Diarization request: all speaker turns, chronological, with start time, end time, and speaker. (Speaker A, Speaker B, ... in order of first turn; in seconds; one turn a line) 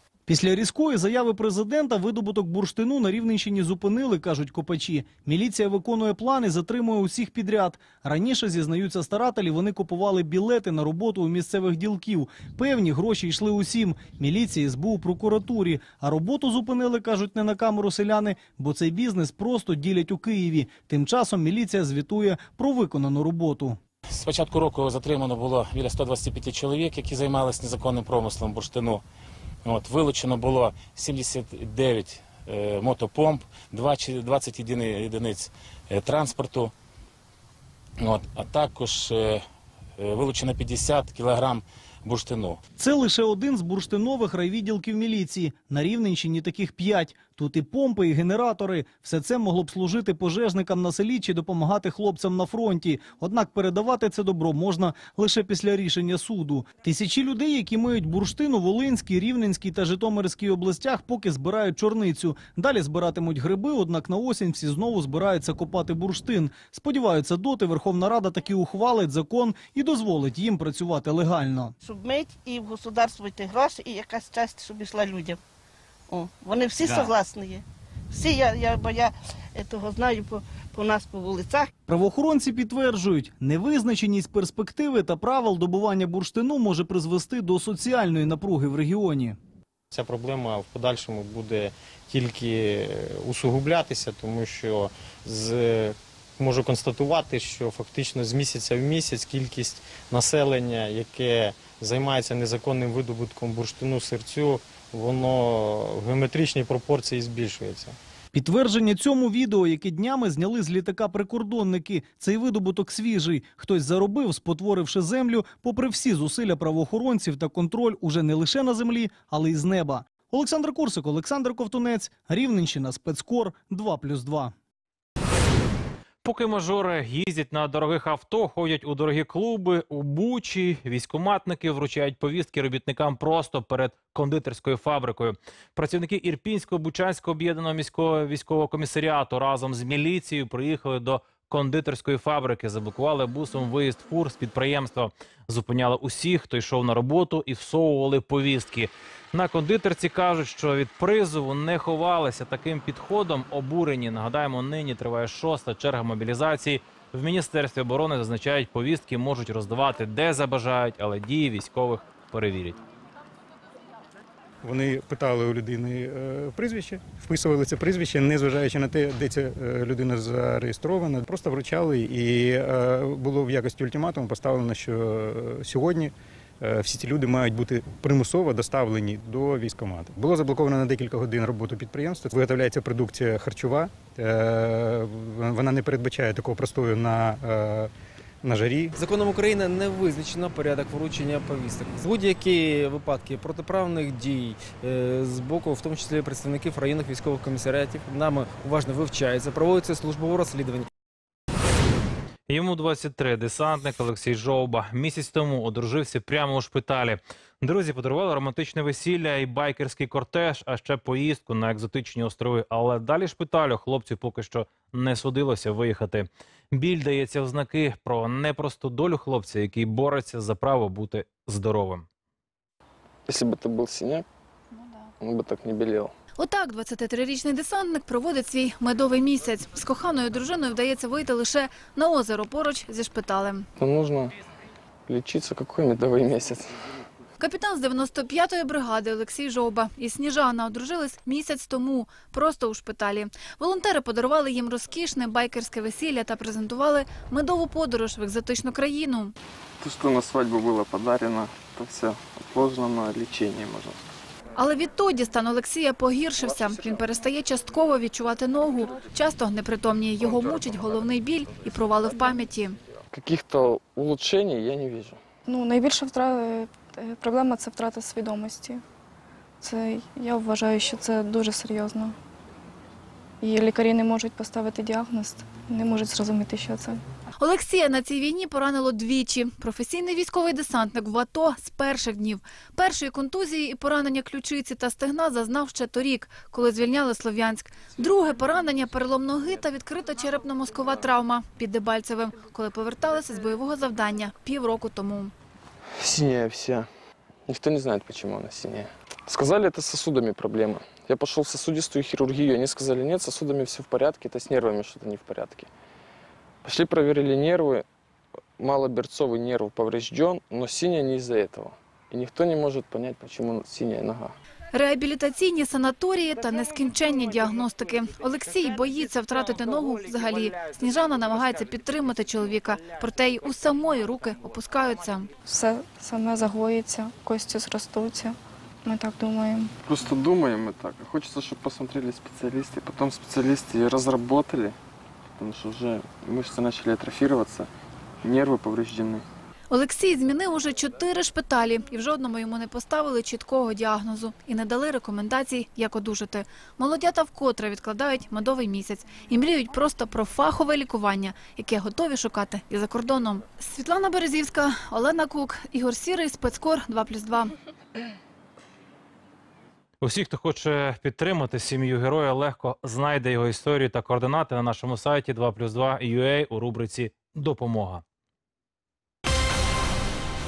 Speaker A: 0.3-23.7
Speaker B: 24.1-29.0
Speaker B: 29.6-36.7
Speaker B: 38.0-39.4
Speaker B: 40.0-42.6
Speaker A: 42.8-71.7
Speaker C: 71.8-75.4
Speaker C: 76.1-81.7
Speaker A: 81.9-89.3
Speaker D: 89.9-108.0
Speaker A: 108.3-124.5
Speaker E: 126.2-162.8
Speaker F: 164.6-187.9
Speaker F: 188.4-188.9
Speaker G: 188.9-200.9
Speaker E: 202.5-222.0
Speaker H: 223.3-224.2
Speaker H: 225.2-226.1
Speaker I: 226.4-233.7
Speaker H: 233.8-234.3
Speaker H: 235.1-236.8
Speaker I: 237.4-249.3
Speaker H: 249.8-254.0
Speaker I: 254.6-262.8
Speaker H: 263.1-265.2
Speaker J: 265.4-268.8
Speaker J: 269.6-272.1
Speaker J: 273.4-277.0
Speaker I: 277.4-295.3
Speaker H: 295.9-296.9
Speaker H: 297.4-305.7
Speaker H: 306.6-307.8
Speaker H: 308.6-314.3
Speaker I: 314.7-325.3
Speaker J: 325.5-329.7
Speaker H: 329.8-334.8
Speaker H: 335.4-337.7
Speaker H: 338.2-339.2
Speaker I: 339.7-357.5
Speaker E: 360.0-368.0